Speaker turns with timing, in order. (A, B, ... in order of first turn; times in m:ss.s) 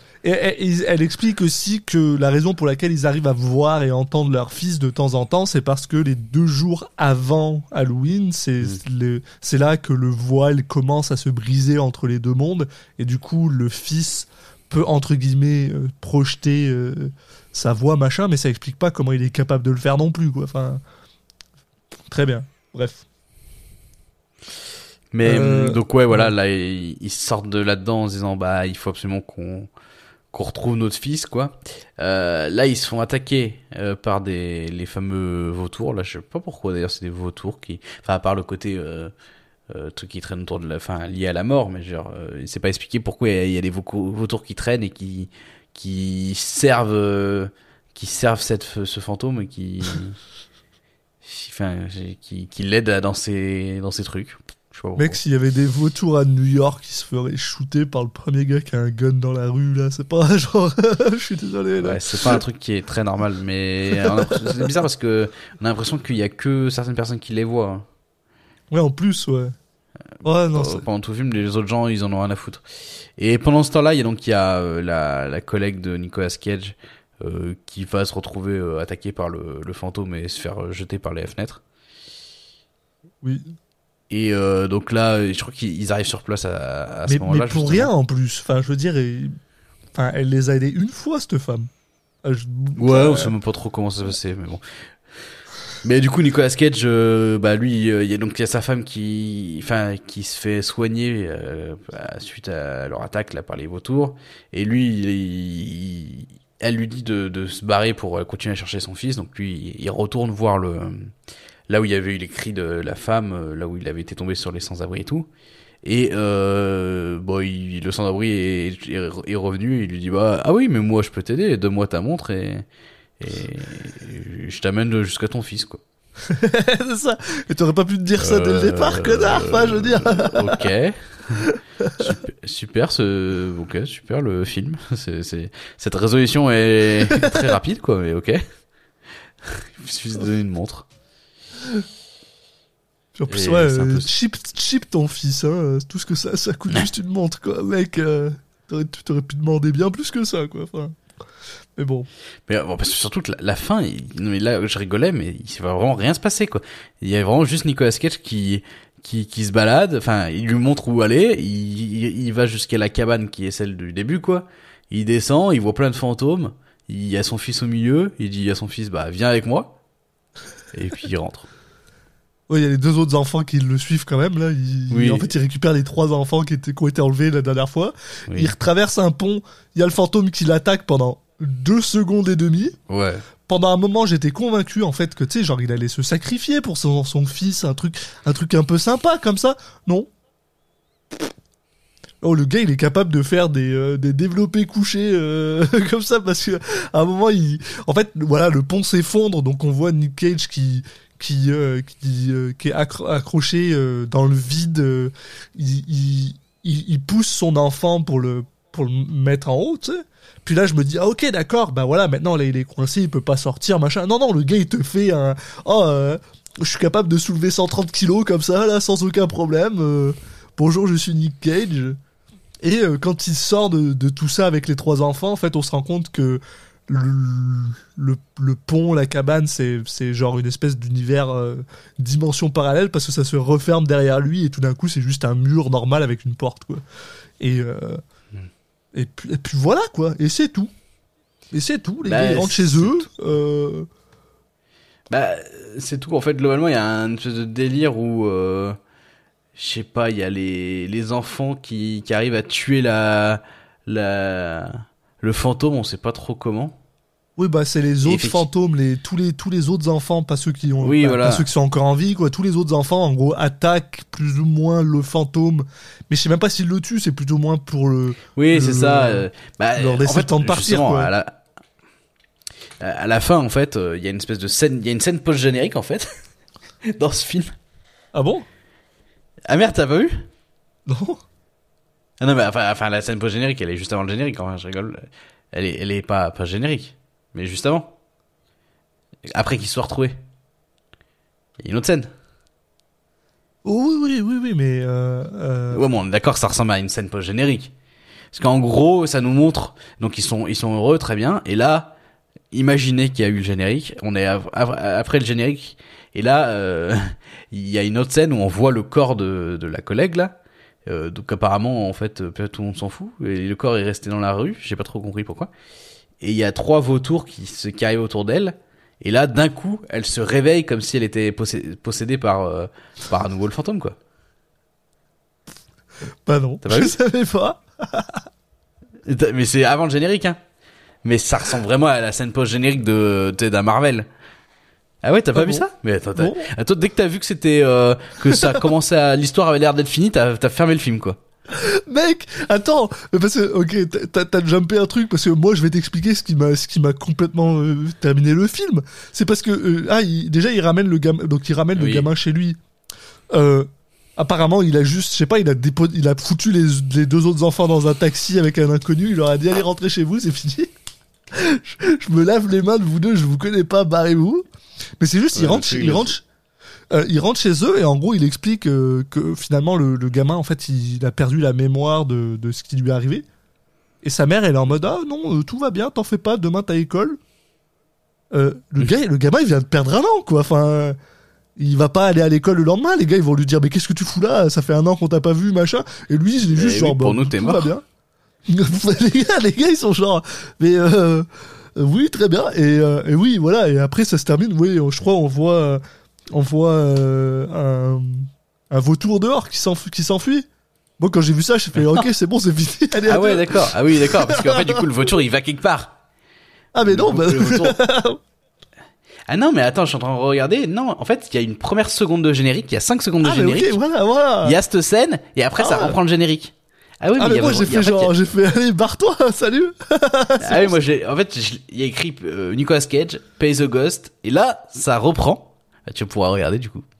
0:00.2-0:20.8 A
0:22.1-0:23.0 A
0:25.1-0:29.7 B
0:25.2-0:26.3 A
0:30.3-0:39.1 B
0:39.7-0:50.2 B
0:51.2-0:55.2 B
0:55.0-1:02.4 A
1:01.8-1:07.8 B
1:08.7-1:09.5 A
1:10.2-1:10.8 A
1:10.5-1:12.6 B
1:13.2-1:21.6 B
1:23.2-1:23.5 A
1:24.1-1:27.9 B
1:27.1-1:29.4 A
1:29.9-1:31.7 A
1:32.2-1:33.3 A
1:32.8-1:34.6 B
1:35.8-1:51.1 B
1:51.7-1:55.3 B
1:55.8-2:02.6 B
2:03.2-2:05.8 B
2:06.3-2:10.7 A
2:08.2-2:11.4 B
2:11.4-2:12.1 A
2:12.0-2:18.4 B
2:17.1-2:17.5 A
2:19.4-2:20.8 B
2:23.1-2:31.0 A
2:23.3-2:24.1 B
2:31.8-2:32.1 A
2:32.5-2:49.8 B
2:50.7-2:51.5 B
2:52.5-3:02.8 A
2:54.9-2:55.3 B
3:02.9-3:03.2 B
3:03.5-3:10.1 A
3:12.2-3:42.0 A
3:42.6-3:56.8 A
3:57.4-3:58.0 A
3:58.9-4:00.7 A
4:01.5-4:03.9 A
4:02.0-4:03.1 B
4:05.1-4:08.8 B
4:09.5-4:16.8 B
4:17.4-4:29.2 A
4:18.0-4:18.4 B
4:20.8-4:21.5 B
4:28.4-4:31.4 B
4:29.8-4:31.1 A
4:32.8-4:36.1 B
4:36.8-4:37.5 B
4:38.1-4:38.4 A
4:39.4-4:40.2 B
4:40.9-4:41.2 A
4:42.2-4:47.9 B
4:49.3-4:50.2 B
4:51.6-4:52.1 B
4:53.6-4:55.8 A
4:55.7-4:57.7 B
4:58.3-5:01.9 B
5:02.5-5:15.5 B
5:16.2-5:24.0 B
5:26.2-5:28.2 A
5:26.6-5:27.0 B
5:29.0-5:30.4 B
5:31.0-5:34.1 B
5:35.0-5:41.2 B
5:35.3-5:36.5 A
5:38.3-5:38.6 A
5:41.5-5:52.6 A
5:51.8-5:52.1 B
5:53.3-6:00.7 A
6:01.3-6:04.4 A
6:05.0-6:06.2 A
6:05.3-6:06.1 B
6:06.9-6:13.2 A
6:14.0-6:17.2 A
6:18.3-6:21.0 A
6:21.6-6:27.8 A
6:26.5-6:27.7 B
6:28.5-6:35.8 A
6:36.3-6:40.4 A
6:41.0-6:44.8 A
6:43.0-6:46.0 B
6:46.7-6:48.2 A
6:46.8-6:47.8 B
6:49.3-6:53.8 B
6:53.2-6:54.6 A
6:54.4-6:58.1 B
6:55.6-6:56.0 A
6:57.2-7:00.7 A
7:00.4-7:06.8 B